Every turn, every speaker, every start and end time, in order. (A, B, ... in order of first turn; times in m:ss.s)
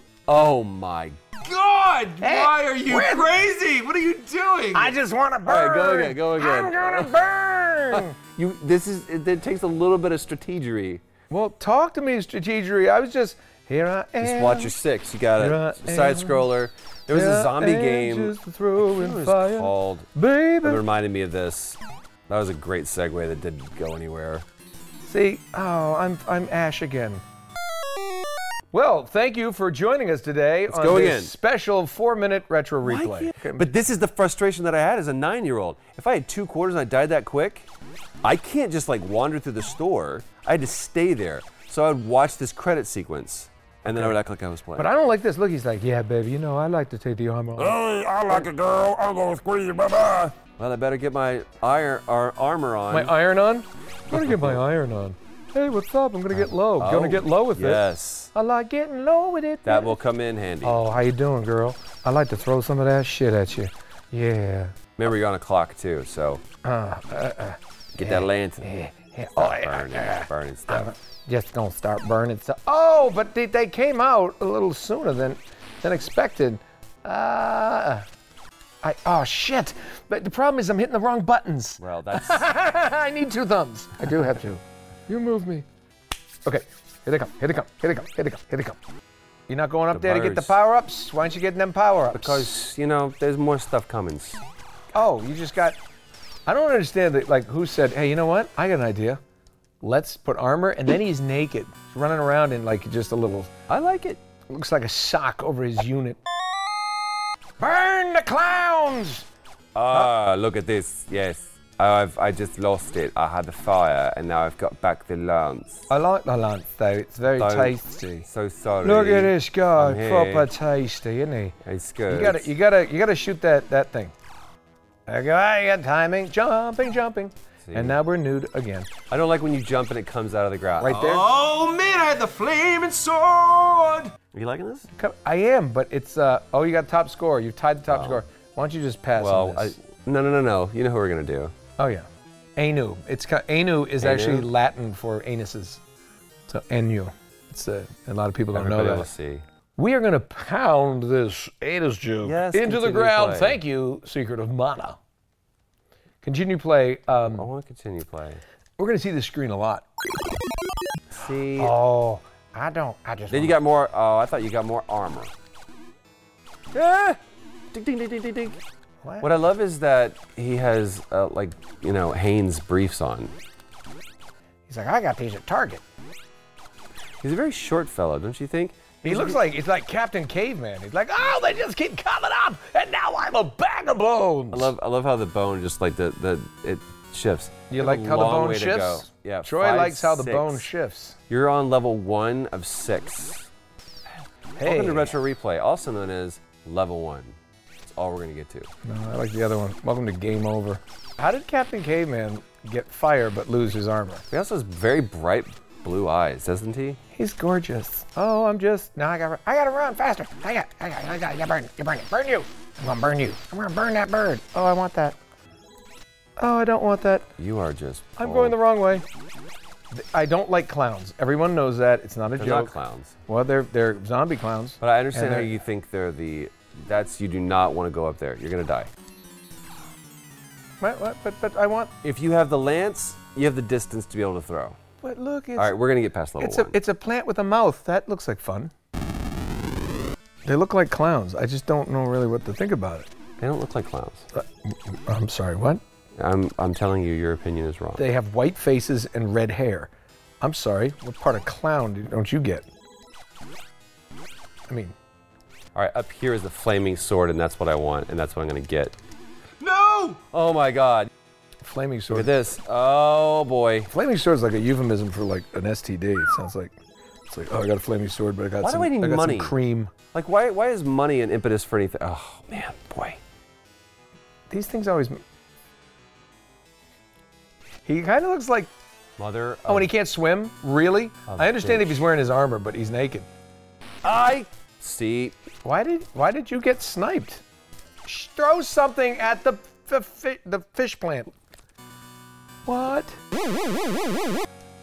0:00.3-0:04.9 A
0:02.2-0:03.3 B
0:04.7-0:08.2 B
0:05.4-0:07.2 A
0:07.9-0:11.0 A
0:11.3-0:14.7 B
0:14.2-0:20.1 A
0:15.4-0:16.5 B
0:17.1-0:20.8 B
0:20.6-0:24.4 A
0:25.0-0:27.2 B
0:28.7-0:33.7 B
0:30.7-0:31.3 A
0:32.8-0:37.7 A
0:38.2-0:44.9 A
0:44.7-0:47.8 B
0:47.6-0:53.1 A
0:52.9-1:00.0 B
0:54.1-0:54.6 A
0:56.3-0:58.3 A
0:59.6-1:00.8 A
1:00.6-1:04.8 B
1:05.0-1:06.4 A
1:06.6-1:18.0 B
1:07.9-1:08.7 A
1:09.4-1:10.9 A
1:18.8-1:25.6 B
1:21.8-1:22.5 A
1:26.4-1:28.8 B
1:29.5-1:32.5 B
1:29.9-1:30.5 A
1:32.1-1:34.4 A
1:34.9-1:35.8 B
1:36.5-1:39.2 B
1:39.8-1:43.5 B
1:43.7-1:44.2 A
1:44.5-1:46.2 B
1:47.6-1:49.2 B
1:49.7-1:55.9 A
1:55.9-1:58.3 B
1:57.3-2:00.5 A
1:58.8-2:01.6 B
2:01.6-2:02.5 A
2:02.1-2:04.1 B
2:05.1-2:08.9 B
2:07.6-2:08.0 A
2:09.1-2:14.9 A
2:10.8-2:11.2 B
2:14.9-2:19.8 B
2:17.9-2:18.2 A
2:19.2-2:21.5 A
2:21.8-2:25.8 B
2:24.0-2:24.5 A
2:26.5-2:29.1 B
2:28.5-2:29.4 A
2:29.8-2:35.0 B
2:32.2-2:33.6 A
2:36.2-2:37.5 B
2:37.2-2:38.4 A
2:38.8-2:39.8 B
2:41.1-2:41.7 A
2:41.6-2:43.6 B
2:43.3-2:45.3 A
2:46.7-2:47.2 A
2:47.7-2:48.6 A
2:49.0-2:49.3 B
2:49.2-2:53.3 A
2:54.7-2:55.8 B
2:57.2-2:59.4 A
2:59.0-3:04.7 B
3:04.5-3:10.6 A
3:07.7-3:11.2 B
3:11.3-3:13.5 A
3:14.6-3:15.2 B
3:14.6-3:18.7 A
3:18.8-3:24.2 B
3:24.3-3:27.0 A
3:27.1-3:35.2 B
3:36.4-3:37.3 B
3:37.4-3:38.6 A
3:38.2-3:39.0 B
3:39.9-3:45.6 B
3:42.4-3:43.1 A
3:44.8-3:48.9 A
3:50.8-3:51.9 B
3:52.0-3:54.8 A
3:55.0-3:55.7 B
3:55.6-3:56.8 A
3:56.4-3:58.7 B
4:00.4-4:03.1 B
4:03.4-4:04.2 A
4:04.3-4:05.8 B
4:06.2-4:08.1 A
4:08.0-4:09.9 B
4:10.4-4:12.7 B
4:14.7-4:14.9 B
4:15.7-4:19.0 A
4:19.6-4:21.1 A
4:21.6-4:22.3 B
4:22.1-4:23.9 A
4:23.9-4:26.8 B
4:27.3-4:29.9 B
4:28.6-4:29.5 A
4:30.1-4:33.2 A
4:34.5-4:35.2 B
4:37.8-4:38.7 B
4:39.2-4:39.9 A
4:39.7-4:43.3 B
4:41.3-4:42.1 A
4:44.0-4:45.4 A
4:45.6-4:47.4 B
4:48.0-4:51.3 B
4:52.6-4:53.2 B